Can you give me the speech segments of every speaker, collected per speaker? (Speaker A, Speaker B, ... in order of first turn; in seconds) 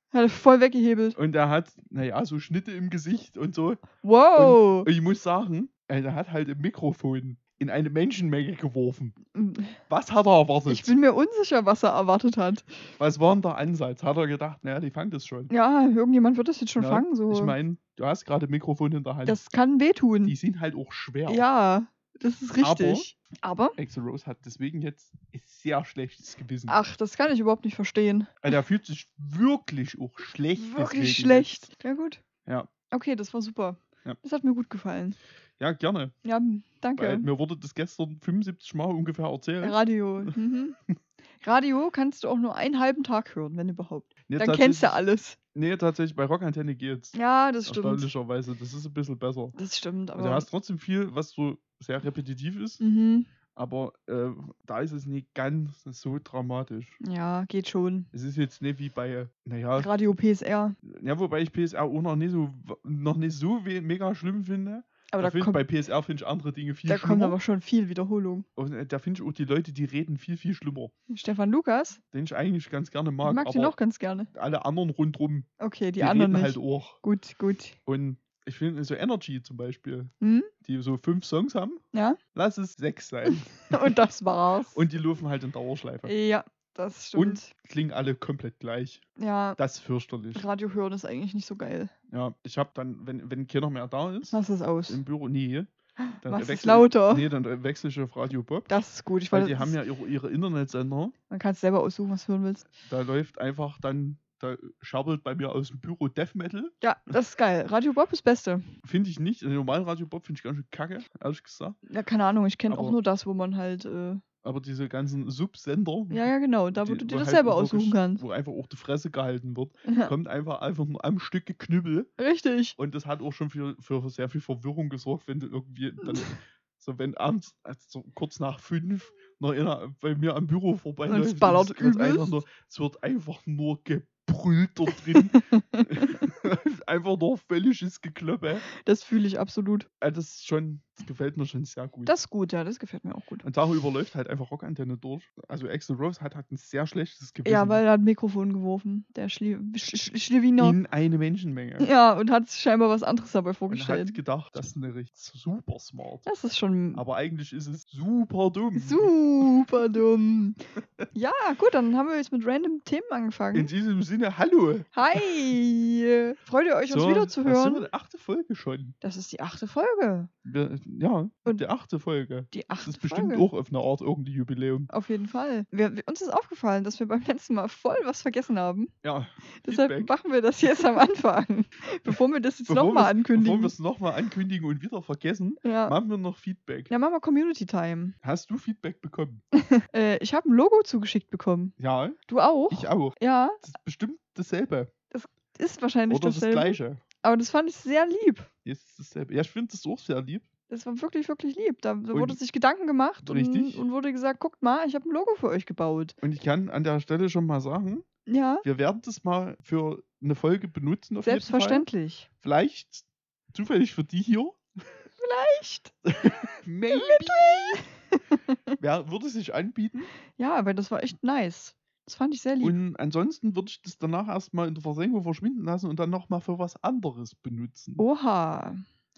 Speaker A: 0.1-1.2, 4.0-4.9, 9.3-9.8, 10.7-12.8, 15.5-17.6, 19.3-20.4, 21.3-23.8, 26.7-28.4, 30.6-32.2, 32.9-35.2, 36.2-37.3, 39.6-40.8, 41.4-45.4, 47.1-48.1, 49.5-50.5, 52.8-53.3, 57.0-58.1, 59.8-60.8, 65.1-65.6, 66.9-68.5, 71.1-72.0, 73.2-74.3, 75.6-77.8, 80.2-80.5, 81.9-82.2, 83.3-84.8, 86.1-87.5, 89.2-89.6, 90.3-91.9, 94.3-95.0, 96.0-97.3, 98.7-99.8, 101.3-102.7, 106.8-108.7, 111.9-114.2, 116.1-118.2, 119.9-120.1, 122.2-122.8, 131.1-132.3, 135.3-136.2, 138.7-139.9, 142.1-143.5, 147.5-150.8, 151.8-154.2, 156.2-157.0, 158.8-160.6, 161.1-163.7, 164.9-167.9, 169.0-170.3, 172.5-173.5, 174.9-178.9, 179.6-183.8, 185.6-186.0, 186.9-188.2, 189.6-191.8, 192.3-193.6, 195.1-198.5, 200.7-206.2, 208.3-208.7, 211.2-212.3, 215.2-215.9, 216.9-218.6, 220.3-222.8, 228.0-228.8
Speaker B: 1.1-9.2, 9.9-10.9, 13.0-15.5, 16.8-19.4, 20.3-21.4, 22.6-23.1, 23.8-26.8, 28.4-31.6, 32.5-32.7, 35.6-36.1, 37.0-40.3, 44.3-45.0, 45.5-47.1, 47.7-49.6, 50.2-52.8, 53.5-57.0, 58.1-59.9, 60.8-67.4, 68.6-70.9, 72.1-73.8, 74.3-75.5, 76.0-77.0, 77.9-81.8, 82.3-83.9, 84.7-86.1, 87.2-89.0, 89.6-90.5, 92.1-98.7, 99.3-101.2, 102.8-106.7, 108.8-111.8, 112.7-113.0, 114.4-122.1, 122.8-138.7, 140.0-142.1, 143.4-147.8, 150.6-151.9, 153.7-156.2, 156.9-159.6, 163.5-165.3, 166.9-168.9, 170.4-174.9, 179.0-180.1, 182.7-186.9, 188.2-189.4, 191.8-192.2, 192.7-194.9, 196.1-197.0, 198.7-200.5, 202.1-202.4, 203.2-203.8, 206.2-208.1, 208.6-211.9, 212.4-214.6, 216.1-217.8, 218.8-220.1, 222.6-228.0